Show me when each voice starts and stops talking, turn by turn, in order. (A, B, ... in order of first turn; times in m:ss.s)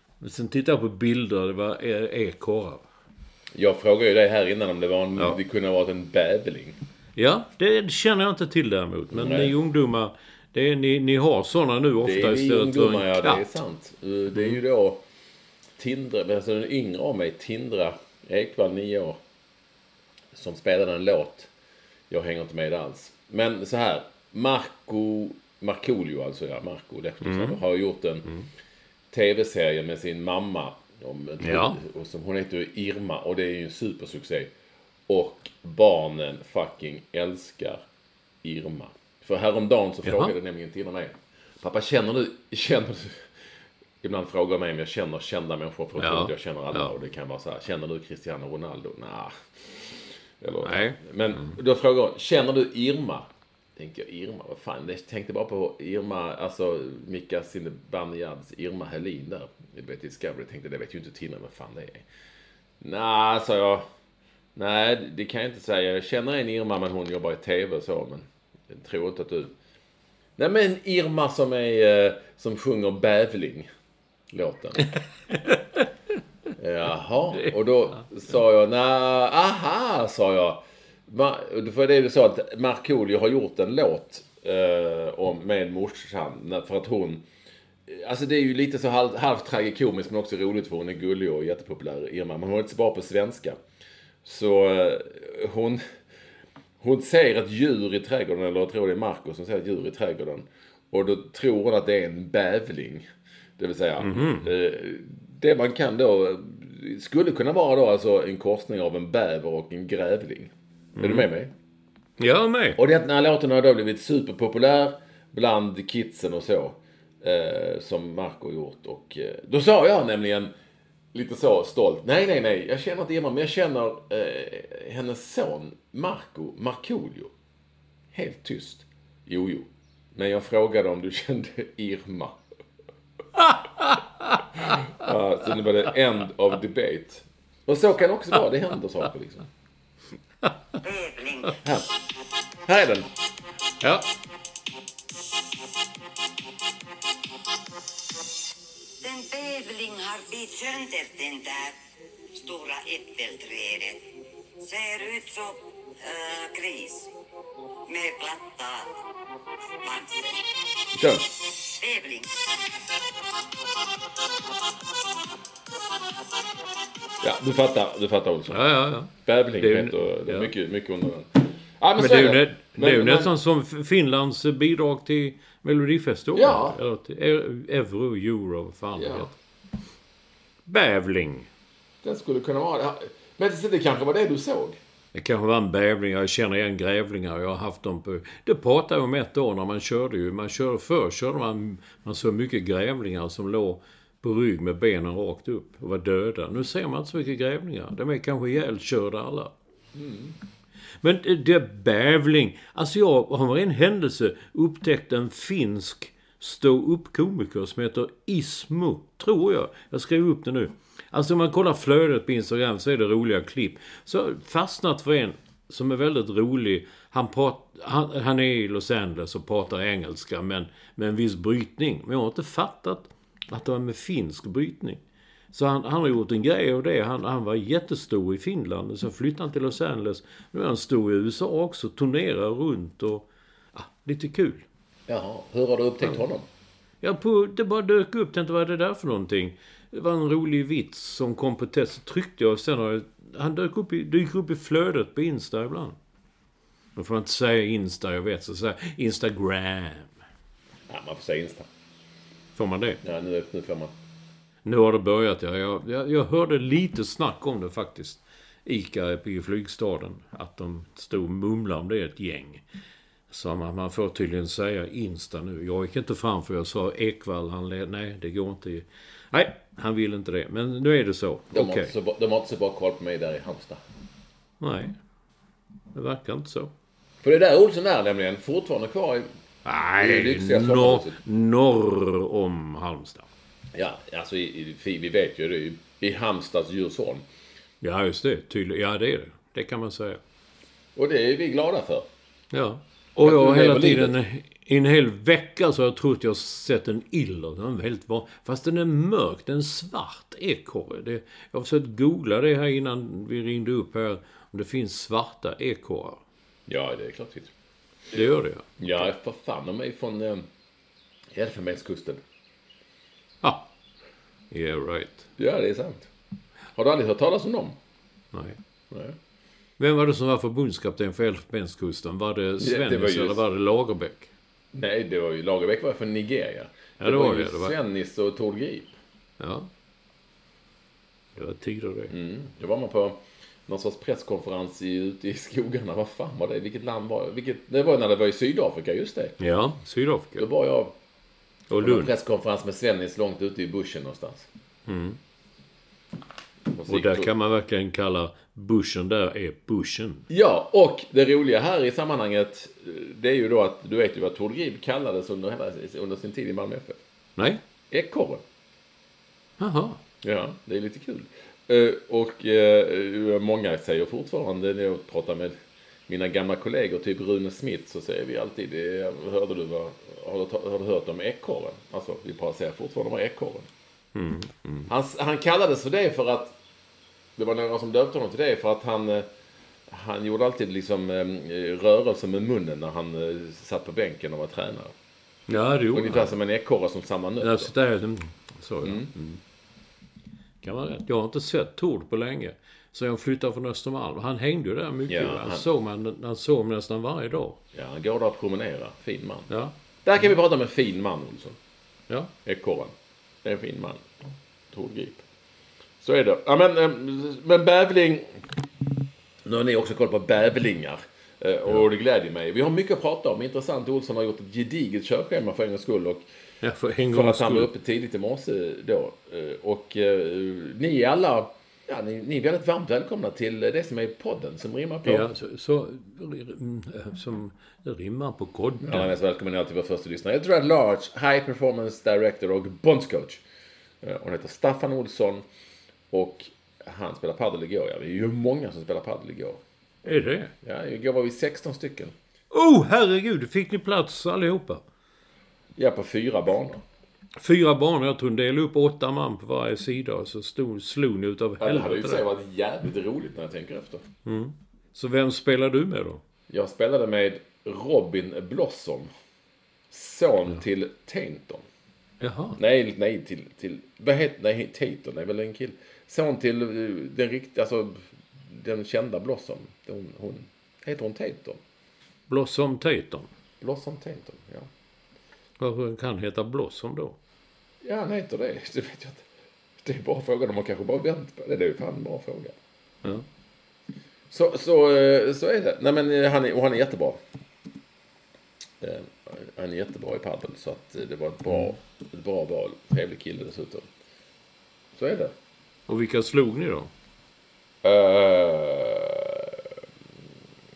0:00.2-0:02.8 A
0:03.5-0:06.8 B
0:07.2-0:13.4 A
0:09.1-0:09.5 B
0:12.0-0:15.0 B
0:15.8-0:19.2 B
0:20.3-0:21.5 B
0:22.1-0:28.3 B
0:27.2-0:27.6 A
0:29.1-0:34.5 B
0:31.4-0:31.8 A
0:35.1-0:37.8 B
0:38.4-0:43.2 B
0:40.0-0:40.3 A
0:44.0-1:02.0 B
0:46.0-0:46.9 A
0:50.6-0:51.5 A
1:02.8-1:03.8 B
1:04.6-1:09.5 B
1:10.4-1:13.7 B
1:14.3-1:15.0 B
1:15.3-1:15.9 A
1:16.6-1:27.2 B
1:27.9-1:33.6 B
1:34.2-1:35.8 B
1:36.8-1:43.0 B
1:43.6-1:51.5 B
1:44.0-1:44.5 A
1:51.0-1:51.3 A
1:52.2-1:52.8 A
1:52.8-2:00.5 B
2:01.1-2:07.3 B
2:08.1-2:12.4 B
2:13.4-2:15.1 A
2:14.6-2:19.4 B
2:20.8-2:21.6 C
2:22.6-2:23.1 B
2:23.8-2:24.0 A
2:29.0-2:31.8 C
2:32.4-2:34.0 C
2:34.6-2:37.1 C
2:37.9-2:38.9 C
2:39.8-2:40.4 C
2:40.9-2:41.3 B
2:41.6-2:42.3 C
2:47.2-2:48.7 B
2:48.5-2:50.5 A
2:49.2-2:53.3 B
2:52.0-2:59.3 A
2:56.3-2:56.8 B
2:59.0-2:59.3 B
3:00.6-3:01.5 A
3:02.0-3:04.8 B
3:05.1-3:19.5 A
3:19.9-3:20.3 B
3:21.0-3:45.0 A
3:45.5-3:54.6 A
3:55.1-3:56.4 B
3:57.0-4:06.0 A
4:07.0-4:10.1 A
4:10.9-4:11.7 B
4:12.6-4:13.0 A
4:13.0-4:13.9 B
4:14.6-4:22.6 A
4:23.3-4:31.9 A
4:31.5-4:33.8 B
4:34.6-4:35.0 A
4:35.9-4:36.7 A
4:37.2-4:39.3 B
4:39.6-4:43.3 A
4:40.0-4:41.2 B
4:43.7-4:47.2 B
4:47.8-4:50.2 A
4:51.0-4:52.0 B
4:52.5-5:06.2 A
4:53.2-4:54.1 B
5:06.7-5:07.5 B
5:08.1-5:09.1 A
5:08.8-5:10.4 B
5:11.3-5:12.2 B
5:13.4-5:13.7 A
5:14.5-5:15.2 A
5:15.4-5:16.1 B
5:16.8-5:17.8 B
5:18.3-5:18.6 A
5:18.9-5:19.2 B
5:19.8-5:24.3 A
5:22.6-5:23.4 B
5:24.7-5:29.0 B
5:27.0-5:27.8 A
5:29.4-5:29.7 A
5:31.4-5:32.1 A
5:32.1-5:39.4 B
5:39.4-5:40.4 A
5:40.4-5:41.0 B
5:41.7-5:42.1 A
5:41.8-5:44.5 B
5:44.9-5:45.2 A
5:46.7-5:47.3 B
5:46.9-5:50.2 A
5:50.3-5:57.0 B
5:57.4-5:57.6 A
5:57.9-5:58.4 B
5:59.6-6:00.0 A
6:00.2-6:05.5 B
6:06.1-6:13.7 B
6:14.1-6:14.9 A
6:14.9-6:16.5 B
6:17.4-6:19.3 B
6:19.9-6:24.9 B
6:25.5-6:26.3 A
6:25.9-6:27.7 B
6:27.4-6:29.4 A
6:28.8-6:29.1 B
6:30.6-6:37.6 A
6:35.1-6:35.6 B
6:37.7-6:39.5 B
6:39.5-6:39.7 A
6:40.0-6:41.6 B
6:42.4-6:42.9 B
6:43.4-6:44.1 B
6:44.7-6:45.2 B
6:46.0-6:48.4 B
6:49.4-6:56.2 B
6:56.6-6:57.7 A
6:57.1-7:05.3 B
7:05.0-7:09.1 A
7:08.8-7:13.4 B
7:14.0-7:15.4 B
7:16.1-7:19.6 B
7:20.0-7:20.5 A
7:20.6-7:22.1 B
7:22.5-7:24.8 A
7:25.8-7:26.8 B
7:27.4-7:32.2 A
7:31.6-7:34.0 B
7:34.2-7:36.2 A
7:36.5-7:39.1 B
7:39.9-7:41.6 B
7:42.2-7:42.6 A
7:42.6-7:51.6 B
7:52.3-7:53.3 A
7:53.6-7:54.7 B
7:55.6-7:57.2 A
7:57.8-7:59.2 B
7:59.8-8:02.5 B
8:04.3-8:07.2 B
8:08.8-8:13.9 B
8:11.5-8:11.8 A
8:15.0-8:15.3 B
8:15.9-8:16.9 A
8:17.8-8:19.6 B